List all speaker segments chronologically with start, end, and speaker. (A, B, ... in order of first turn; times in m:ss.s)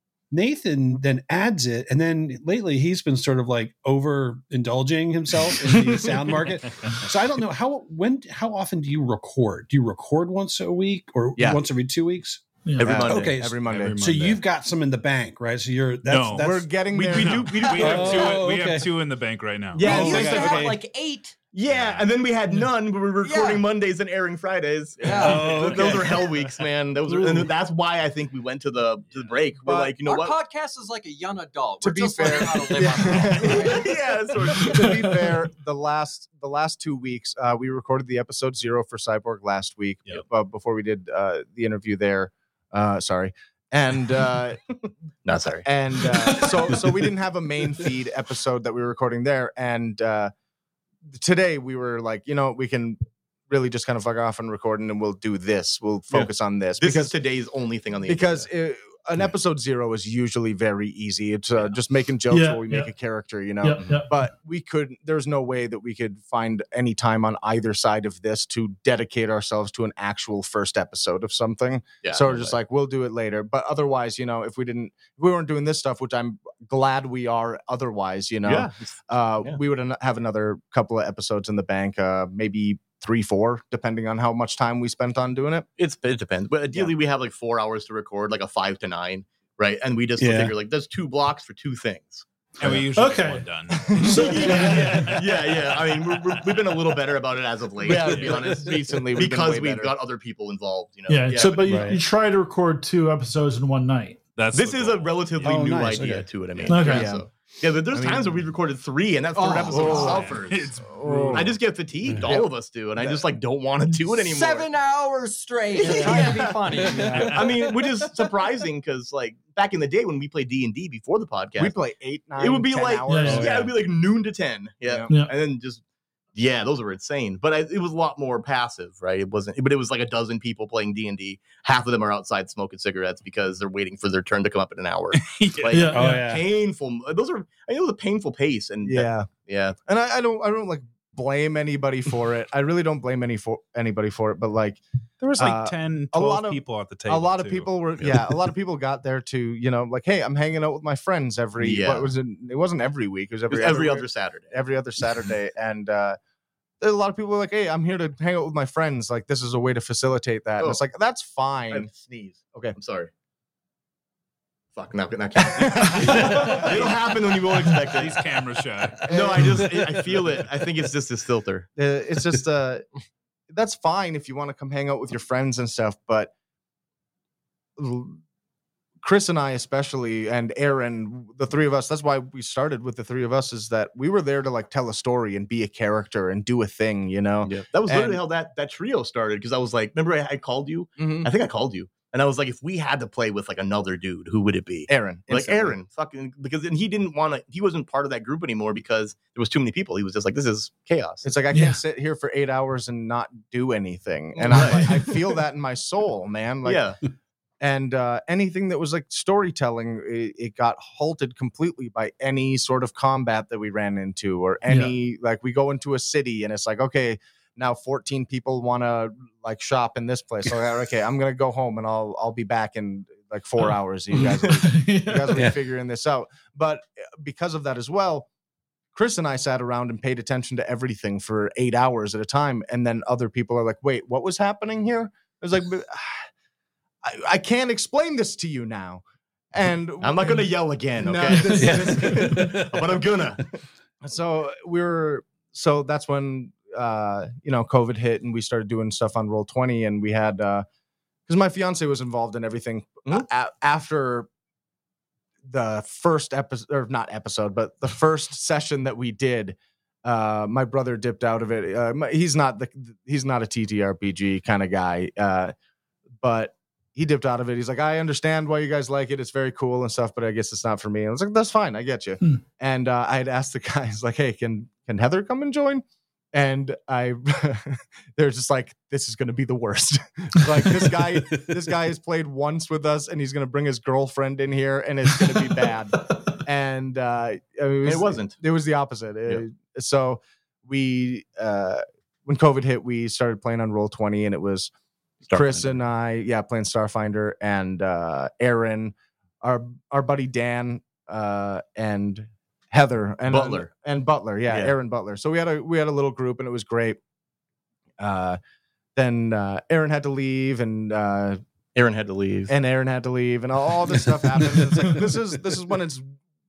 0:00.3-0:12.4 A
0:05.7-0:06.0 B
0:11.4-0:11.6 B
0:12.6-0:12.9 C
0:12.8-0:13.4 D
0:12.8-0:14.0 B
0:13.0-0:16.6 A
0:13.6-0:14.4 E
0:16.0-0:20.4 E
0:16.4-0:18.1 B
0:17.1-0:18.3 D
0:17.6-0:18.4 F
0:17.7-0:18.9 A
0:19.8-0:20.6 D
0:19.8-0:20.8 A
0:19.8-0:21.4 F
0:21.5-0:30.4 D
0:21.7-0:22.0 E
0:23.2-0:23.6 F
0:25.0-0:25.7 F
0:25.1-0:26.3 A
0:27.1-0:27.5 C
0:29.6-0:30.0 B
0:30.0-0:34.0 F
0:31.8-0:44.6 B
0:33.3-0:35.2 D
0:45.2-0:46.8 D
0:45.6-0:50.3 B
0:51.0-0:57.1 B
0:56.8-0:58.5 D
0:58.1-1:25.7 B
1:02.3-1:02.9 C
1:03.6-1:04.1 C
1:12.0-1:12.5 D
1:18.4-1:19.6 D
1:25.8-1:32.2 D
1:30.2-1:30.5 A
1:32.6-1:36.5 E
1:32.9-1:35.1 C
1:33.7-1:34.9 B
1:34.3-1:41.9 D
1:37.8-1:39.9 B
1:38.0-1:38.5 E
1:41.1-1:44.2 C
1:41.6-1:42.0 A
1:44.4-1:45.5 E
1:44.5-1:50.7 D
1:45.4-1:46.3 A
1:46.7-1:47.1 C
1:46.8-1:47.3 B
1:47.9-1:48.4 B
1:49.4-1:50.2 F
1:49.4-1:51.5 B
1:49.8-1:51.5 E
1:51.3-1:54.7 D
1:52.2-1:53.3 B
1:54.2-1:57.5 F
1:55.8-2:01.7 D
1:56.9-1:57.6 E
2:01.6-2:03.7 B
2:02.4-2:05.8 D
2:03.1-2:03.5 C
2:04.8-2:05.1 B
2:05.1-2:05.3 C
2:06.3-2:19.8 D
2:15.1-2:15.9 E
2:15.7-2:16.2 C
2:15.9-2:16.4 A
2:18.8-2:19.3 B
2:19.8-2:36.2 B
2:25.2-2:28.3 E
2:31.6-2:32.1 D
2:33.5-2:34.6 D
2:36.8-2:41.9 B
2:41.7-2:43.1 D
2:44.7-2:48.2 D
2:45.4-2:47.0 B
2:46.1-2:46.8 E
2:47.6-2:49.1 E
2:49.1-2:49.6 B
2:49.1-2:51.7 D
2:51.8-2:52.8 B
2:53.5-2:56.3 B
2:57.8-2:58.2 B
2:59.0-3:08.2 B
3:07.4-3:21.2 D
3:11.0-3:11.3 B
3:14.9-3:15.8 B
3:21.2-3:26.9 B
3:21.5-3:21.8 C
3:24.3-3:25.2 D
3:26.6-3:27.0 D
3:27.6-3:48.3 B
3:34.7-3:34.9 C
3:44.5-3:45.5 C
3:48.9-3:56.3 B
3:57.0-4:02.7 B
4:00.0-4:03.6 D
4:01.5-4:02.8 A
4:04.0-4:10.6 B
4:11.3-4:14.3 B
4:15.4-4:25.5 B
4:26.2-4:54.7 B
4:47.8-4:48.4 D
4:55.3-4:55.8 D
4:55.3-5:07.0 B
5:03.3-5:03.7 D
5:04.5-5:04.7 D
5:08.0-5:08.4 B
5:09.0-5:11.4 B
5:11.7-5:12.5 D
5:12.5-5:16.1 B